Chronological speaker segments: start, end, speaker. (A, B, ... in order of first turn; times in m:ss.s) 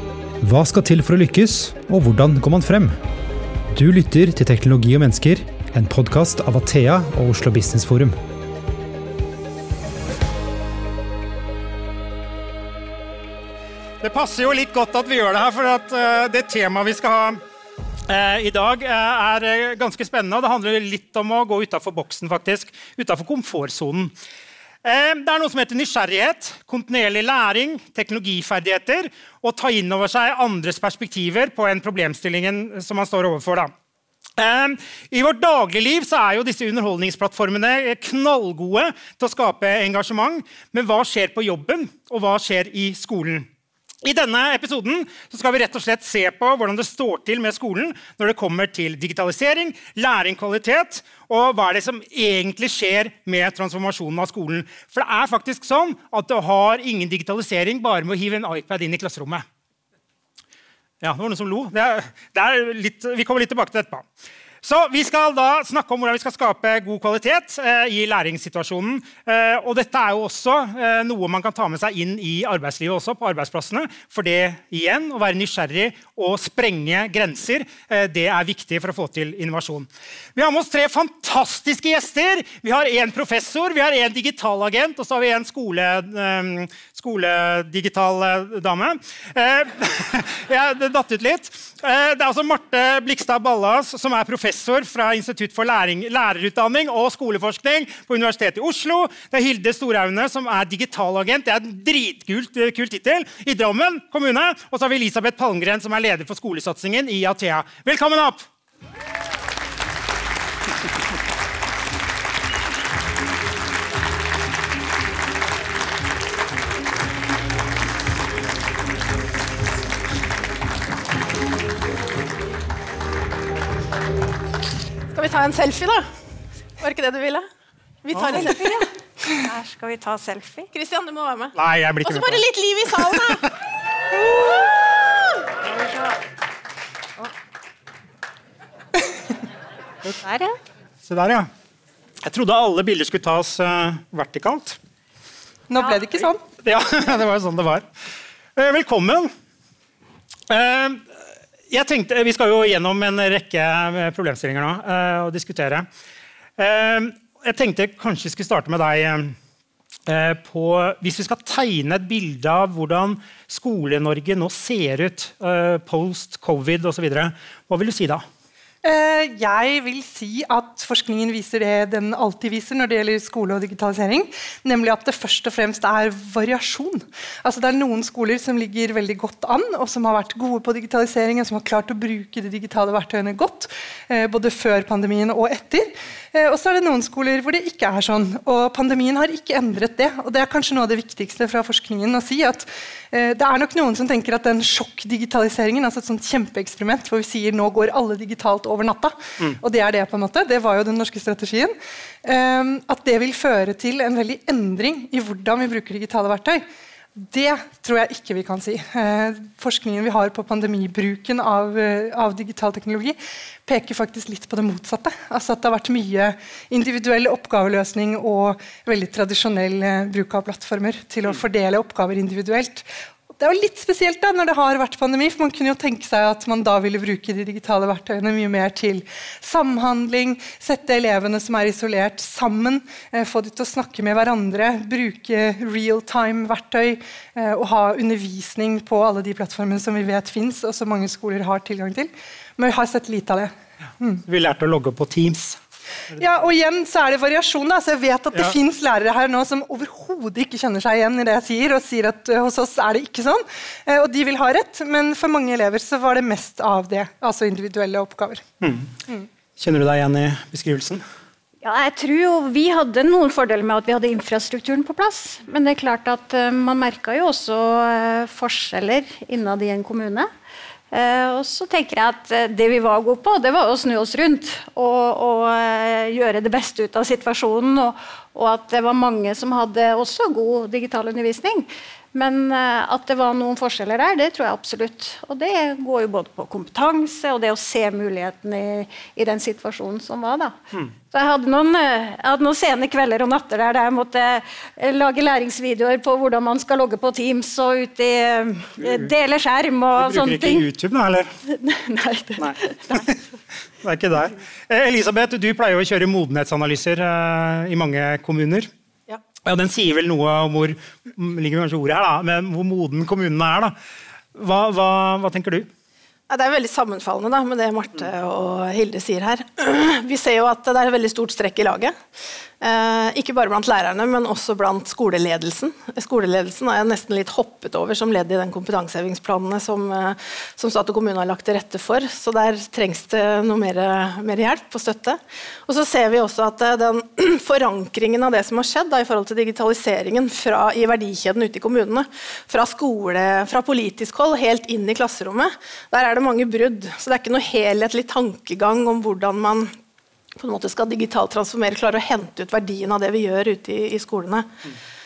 0:00.4-0:03.0 A
0:03.7-0:08.2 A
0:14.0-0:17.4 B
0:18.1-0:24.1 B
0:24.8-0:33.7 B
0:34.4-0:43.5 B
0:44.0-0:59.4 B
1:01.0-1:04.0 B
1:04.6-1:48.4 B
2:05.1-2:06.1 C
2:06.8-2:07.5 C
2:08.0-2:08.9 C
2:08.1-2:08.5 B
2:08.3-2:10.7 D
2:10.7-2:13.5 C
2:11.6-2:12.4 B
2:20.2-2:20.6 D
2:21.0-2:21.5 B
2:22.2-2:24.8 B
2:25.7-2:26.4 E
2:26.6-2:27.8 B
2:28.6-2:29.3 B
2:30.5-2:31.1 B
2:31.7-2:35.9 B
2:36.6-2:39.4 B
2:40.1-2:48.2 B
2:48.8-3:26.6 E
3:27.2-3:42.9 E
3:43.4-4:04.2 E
4:04.2-4:05.6 B
4:06.2-4:18.4 E
4:18.6-4:18.9 B
4:19.6-4:21.0 B
4:21.6-4:30.3 D
4:30.9-4:50.6 D
4:51.1-5:00.6 D
4:58.8-4:59.1 B
5:00.0-5:01.3 B
5:01.5-5:03.2 D
5:02.4-5:03.2 B
5:03.8-5:08.7 B
5:09.4-5:13.7 B
5:14.3-5:15.7 B
5:16.3-5:22.0 C
5:22.6-5:49.7 C
5:50.4-5:54.6 C